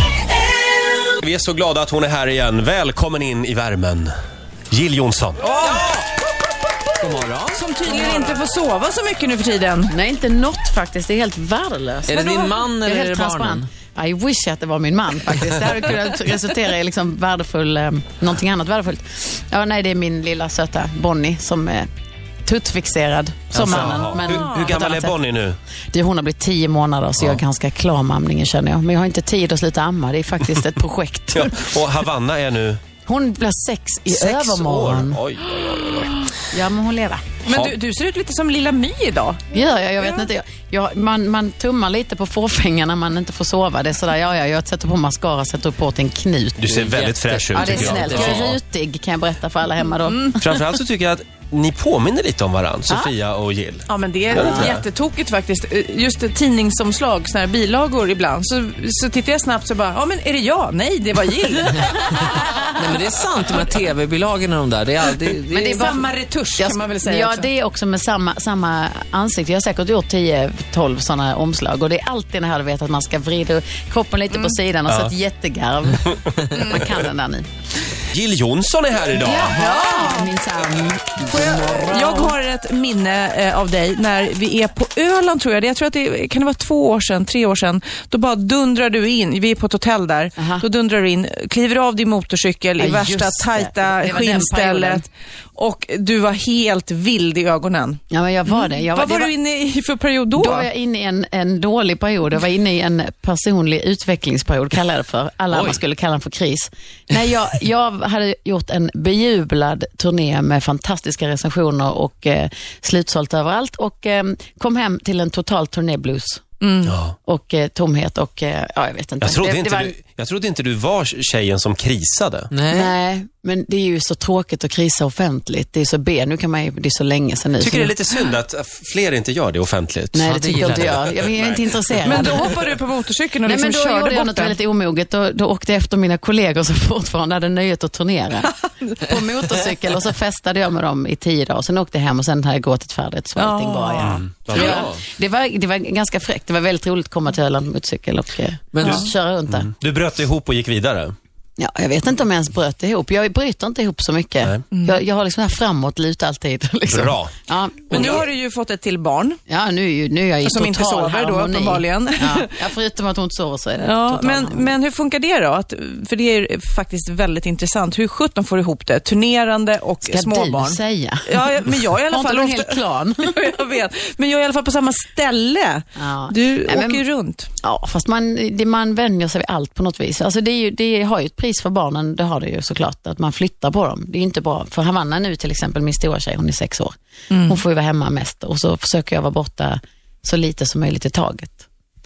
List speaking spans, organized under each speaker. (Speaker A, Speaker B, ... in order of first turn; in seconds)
Speaker A: 1.1-4.1, 4.7-5.6, 23.6-25.6, 31.3-32.8, 34.1-36.3, 37.5-37.8, 46.6-48.5, 50.4-54.8, 78.1-79.5, 116.8-117.2, 119.2-122.5, 127.6-132.3, 144.1-145.0, 148.8-151.2, 156.9-157.3, 157.9-158.2
Speaker B: 5.5-6.1, 7.0-8.4, 12.1-13.7, 23.5-24.2, 46.6-48.5, 62.7-65.9, 105.5-105.8, 122.5-123.0, 130.2-131.2, 148.7-149.0
Speaker C: 7.5-9.9, 12.2-12.5, 24.1-24.7, 37.5-40.2, 53.9-62.2, 65.5-67.5, 74.3-74.6, 76.5-76.9, 79.5-80.3, 81.2-100.7, 116.6-117.0, 132.1-134.6, 143.4-144.8, 148.8-149.1, 154.7-155.0, 157.9-159.4, 160.4-162.5, 163.8-177.5, 187.3-187.6
Speaker D: 9.9-12.2, 12.8-21.9, 22.4-25.2, 25.9-31.7, 33.0-35.2, 36.5-37.2, 39.5-46.7, 47.5-50.6, 54.3-54.8, 65.5-66.0, 66.6-77.5, 79.2-82.3, 90.4-90.7, 92.8-95.1, 98.1-99.3, 100.3-116.4, 117.2-119.9, 122.7-128.0, 130.1-132.6, 133.4-149.7, 151.6-158.3, 159.5-164.7, 170.1-173.3, 176.0-177.0, 177.6-186.9, 187.5-191.7